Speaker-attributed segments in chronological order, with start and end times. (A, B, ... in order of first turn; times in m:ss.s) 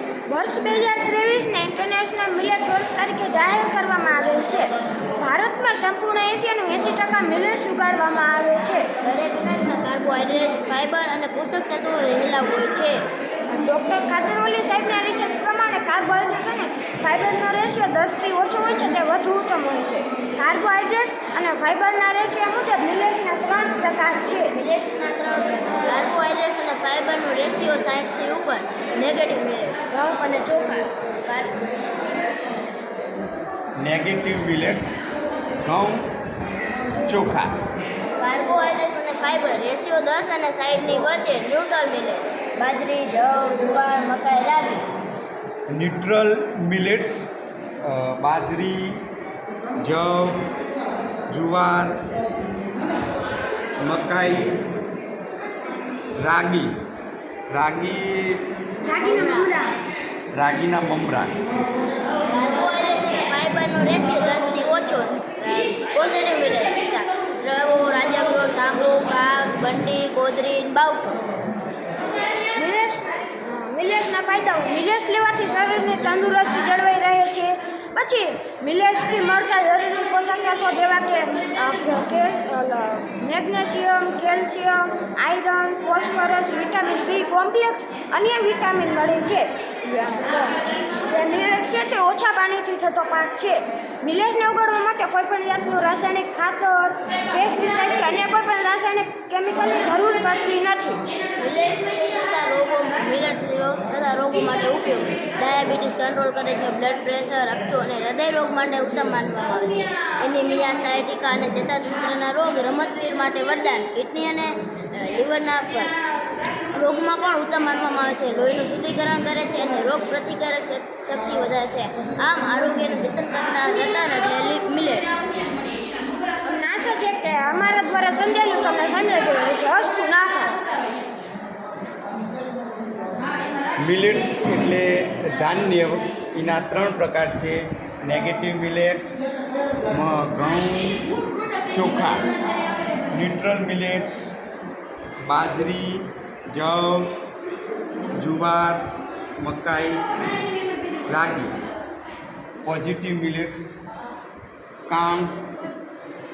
0:00.3-0:08.9 A
0:09.0-0:13.0 B
0:13.5-0:24.5 A
0:24.5-0:31.6 B
0:33.8-0:35.1 C
0:35.6-0:36.1 C
0:37.0-0:37.6 C
0:38.2-0:44.9 B
0:45.7-0:47.3 C
0:47.8-0:49.0 C
0:49.8-0:50.5 C
0:51.3-0:52.1 C
0:53.8-0:54.6 C
0:56.2-0:56.7 C
0:57.5-0:58.5 C
0:58.8-0:59.8 A
0:59.0-0:59.5 B
1:00.3-1:01.4 C
1:02.2-1:11.2 B
1:12.6-1:41.0 A
1:41.4-1:55.9 B
1:56.7-2:05.2 B
2:06.4-2:10.6 A
2:13.8-2:19.2 C
2:19.9-2:21.1 C
2:21.7-2:22.3 C
2:23.1-2:24.4 C
2:25.3-2:27.1 C
2:28.2-2:30.2 C
2:31.1-2:31.6 C
2:32.6-2:33.8 C
2:34.9-2:35.5 C